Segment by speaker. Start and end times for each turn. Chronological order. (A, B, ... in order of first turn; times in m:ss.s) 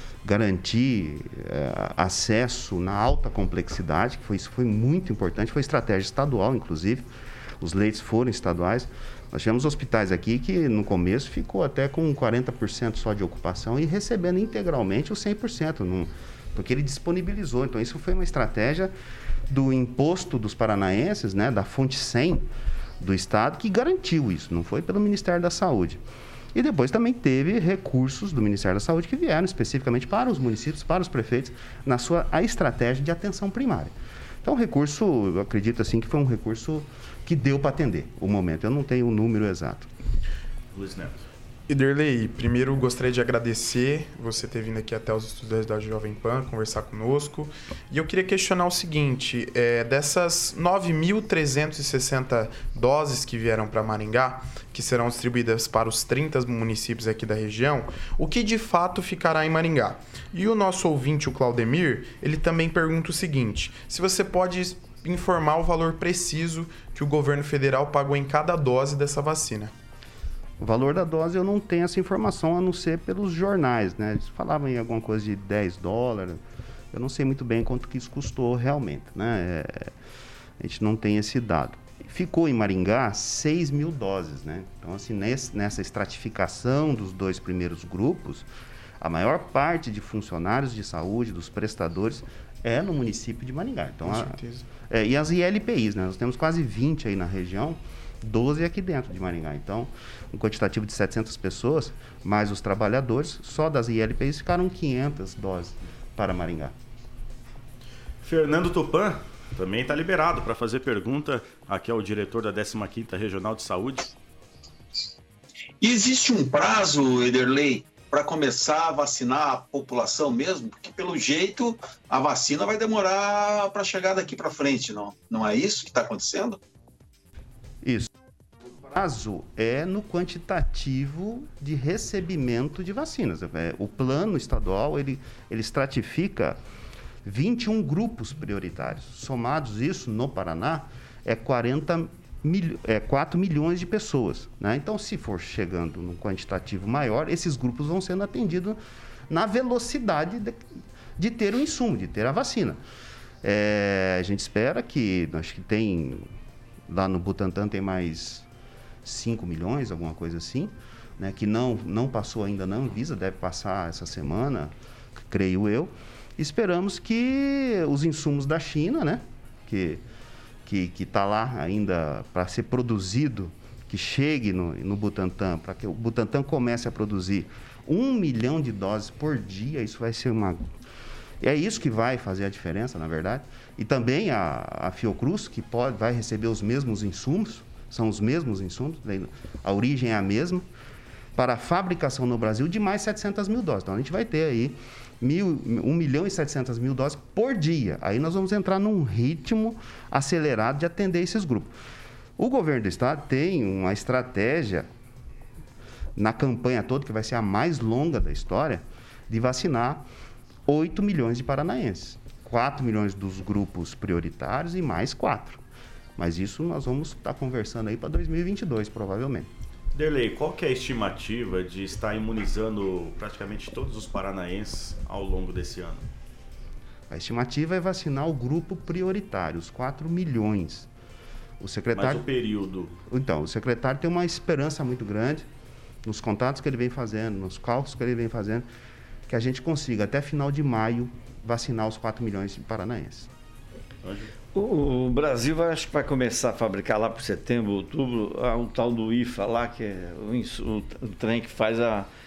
0:00.2-0:07.1 A
0:07.6-0:18.9 A
0:19.5-0:22.5 A
0:23.0-0:26.0 A
0:26.5-0:33.9 A
0:34.4-0:39.9 A
0:40.7-0:41.2 B
0:41.7-1:09.7 C
1:10.6-1:16.4 A
1:16.9-1:19.9 A
1:20.6-1:28.5 A
1:29.0-1:46.7 A
1:34.1-1:34.6 C
1:48.2-1:54.1 B
1:55.8-2:06.6 D
2:07.8-2:08.1 A
2:08.8-2:16.6 A
2:17.2-2:30.6 A
2:31.2-2:32.8 A
2:33.4-2:36.3 A
2:36.9-2:38.4 A
2:39.0-2:44.7 A
2:45.3-2:50.0 A
2:50.7-3:00.6 A
3:01.4-3:10.6 A
3:11.4-3:21.7 A
3:22.4-3:24.9 A
3:26.2-3:30.0 A
3:30.7-3:35.6 A
3:36.2-3:39.5 A
3:39.9-3:46.0 B
3:47.1-3:50.9 A
3:51.6-3:52.2 A
3:51.9-3:52.9 B
3:53.1-3:55.4 A
3:56.0-3:58.7 A
3:59.3-4:03.3 A
4:04.0-4:04.3 B
4:04.5-4:12.1 E